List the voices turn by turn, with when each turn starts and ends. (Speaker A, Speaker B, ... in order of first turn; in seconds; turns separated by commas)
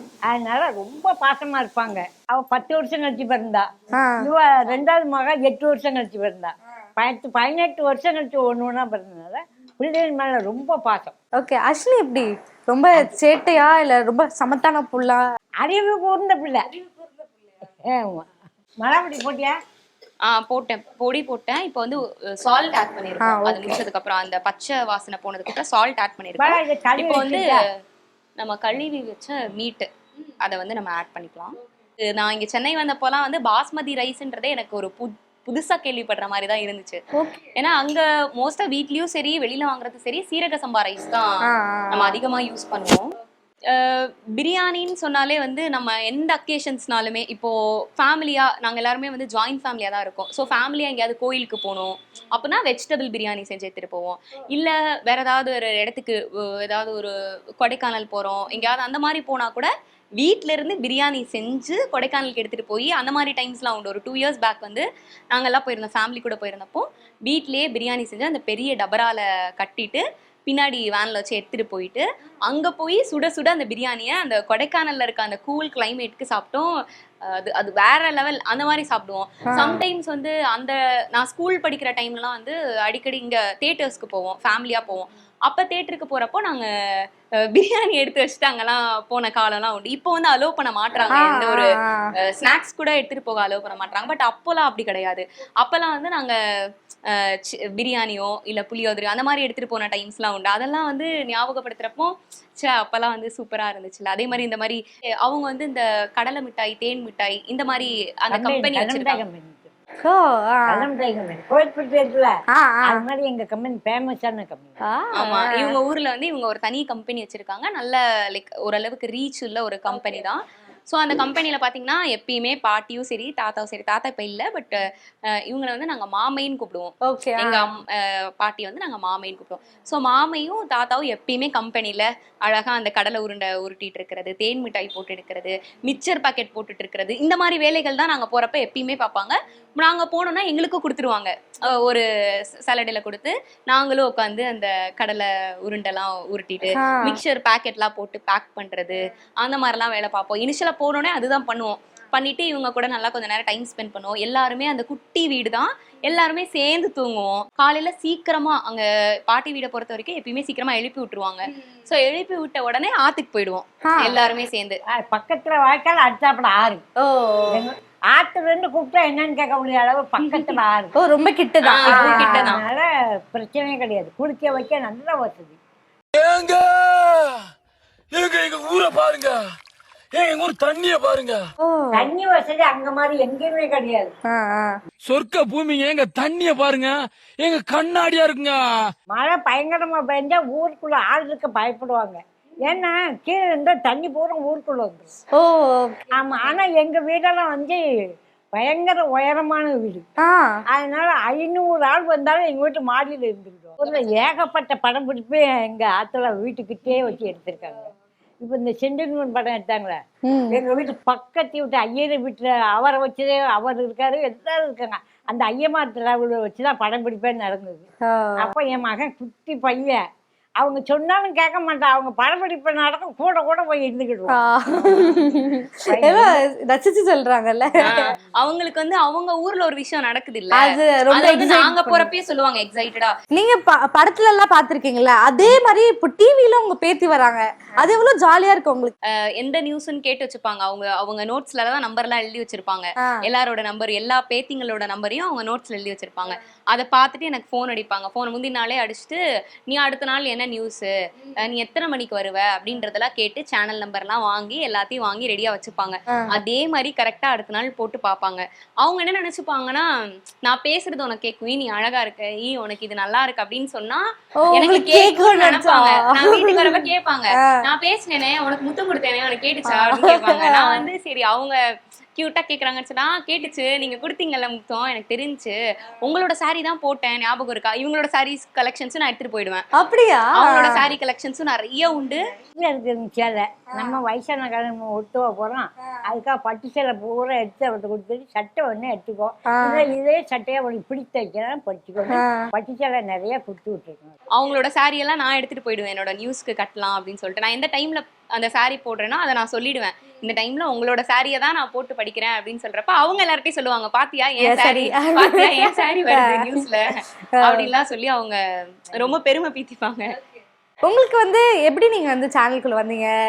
Speaker A: 0.3-3.7, Speaker B: 4.0-4.3, Speaker A: 4.2-11.1, Speaker B: 11.4-15.2, Speaker A: 15.6-16.7, Speaker A: 17.8-18.3, Speaker A: 18.8-19.6, Speaker C: 20.3-27.6, Speaker B: 23.2-23.8, Speaker A: 26.4-27.6, Speaker C: 28.4-29.9, Speaker C: 30.4-31.6, Speaker C: 32.1-37.0, Speaker B: 37.2-37.5, Speaker C: 37.5-43.1, Speaker B: 41.5-42.2, Speaker C: 43.7-76.7, Speaker C: 77.2-91.7, Speaker B: 79.5-79.8, Speaker B: 91.1-92.1, Speaker C: 92.2-96.4, Speaker C: 97.1-109.2, Speaker A: 108.3-109.7, Speaker B: 110.0-110.9, Speaker A: 110.7-112.3, Speaker B: 112.5-113.0, Speaker A: 112.8-114.8, Speaker B: 114.9-115.8, Speaker C: 115.2-164.8, Speaker B: 127.0-127.7, Speaker B: 146.8-147.2, Speaker B: 163.8-164.2, Speaker A: 164.9-166.8, Speaker B: 167.0-167.6, Speaker A: 167.5-170.9, Speaker B: 171.0-172.6, Speaker C: 171.6-172.6, Speaker A: 171.8-175.6, Speaker D: 176.1-177.4, Speaker D: 178.1-179.5, Speaker D: 180.1-181.4, Speaker B: 181.6-182.1, Speaker A: 181.9-184.1, Speaker B: 184.3-184.8, Speaker D: 185.1-188.9, Speaker A: 189.1-195.1, Speaker B: 195.3-196.2, Speaker A: 196.2-197.8, Speaker A: 198.6-200.1, Speaker B: 200.2-200.5, Speaker A: 200.7-210.0, Speaker B: 210.3-210.6, Speaker A: 210.5-217.9, Speaker B: 218.0-218.6, Speaker A: 218.4-220.0, Speaker A: 220.6-225.2, Speaker B: 224.3-228.0, Speaker A: 225.9-226.4, Speaker C: 227.8-233.1, Speaker B: 230.6-232.1, Speaker B: 233.3-238.9, Speaker C: 239.1-271.6, Speaker B: 264.4-267.6, Speaker B: 269.7-270.9, Speaker C: 272.2-279.6, Speaker B: 279.8-280.9, Speaker C: 280.4-282.2, Speaker A: 282.6-294.1, Speaker B: 283.7-284.0, Speaker B: 289.5-289.9, Speaker B: 292.1-292.5, Speaker C: 294.3-310.2, Speaker B: 304.4-306.7, Speaker B: 307.3-307.7, Speaker B: 310.9-313.1